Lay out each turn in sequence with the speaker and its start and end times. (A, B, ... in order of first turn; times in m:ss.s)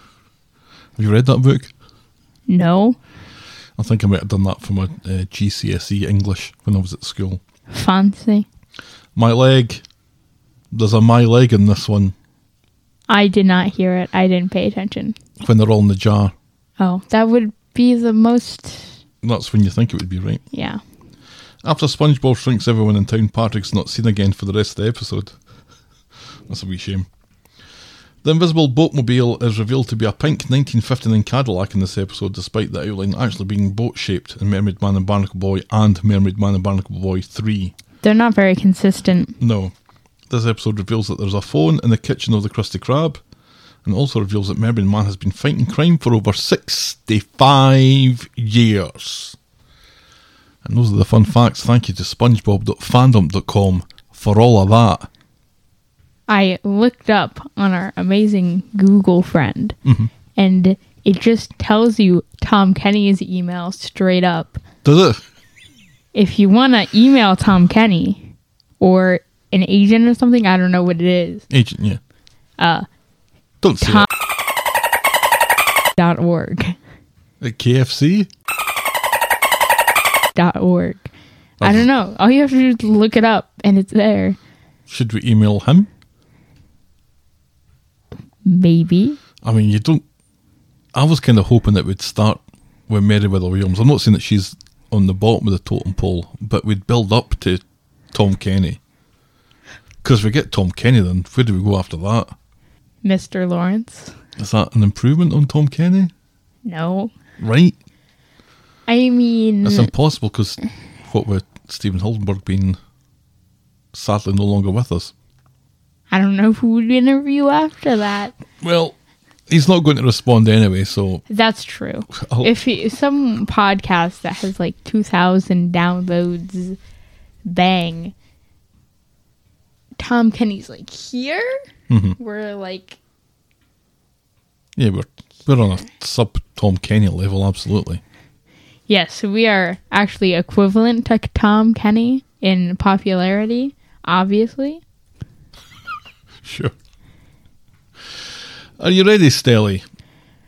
0:01.0-0:01.7 A
0:02.5-0:03.0 B
0:03.8-0:07.4 A
0:07.7-0:08.5 B
0:09.1-0:09.8 A
0:10.7-0:12.1 A
0:13.1-0:15.2 B
0:15.4-0:16.3 A
0:16.8-0:19.0 B
0:19.2-0:20.4 A
0:20.5-0:20.8 B
0:21.6-0:25.3 A
0:26.5-0:27.1 A
0:28.2-0:37.7 A
0:38.0-0:39.4 B
0:39.4-0:39.7 A
0:40.3-0:43.2 A
0:43.8-0:49.4 A
0:50.6-0:55.1 A
0:56.3-0:59.8 B
0:59.8-1:00.1 A
1:00.3-1:04.6 B
1:04.8-1:05.2 A
1:06.1-1:11.4 B
1:11.5-1:12.0 A
1:12.6-1:12.8 B
1:13.6-1:14.1 A
1:13.8-1:14.1 B
1:16.0-1:16.8 B
1:17.4-1:18.3 A
1:20.3-1:21.1 B
1:21.6-1:21.9 A
1:21.6-1:24.4 B
1:24.9-1:25.9 A
1:28.4-1:29.2 B
1:29.4-1:30.0 A
1:30.9-1:38.8 A
1:40.0-1:42.3 A
1:43.0-1:44.2 B
1:44.4-1:46.1 A
1:46.6-1:47.1 B
1:47.4-1:47.7 A
1:48.9-1:49.9 B
1:49.6-1:52.8 A
1:53.9-1:55.1 A
1:56.1-1:58.3 B
1:58.6-1:59.0 A
1:59.5-2:01.2 A
2:01.3-2:06.8 B
2:02.1-2:02.5 A
2:07.4-2:08.1 B
2:10.0-2:11.6 B
2:11.9-2:12.2 A
2:12.2-2:13.0 B
2:14.8-2:18.0 A
2:18.9-2:24.8 B
2:26.4-2:26.7 A
2:28.8-2:29.8 A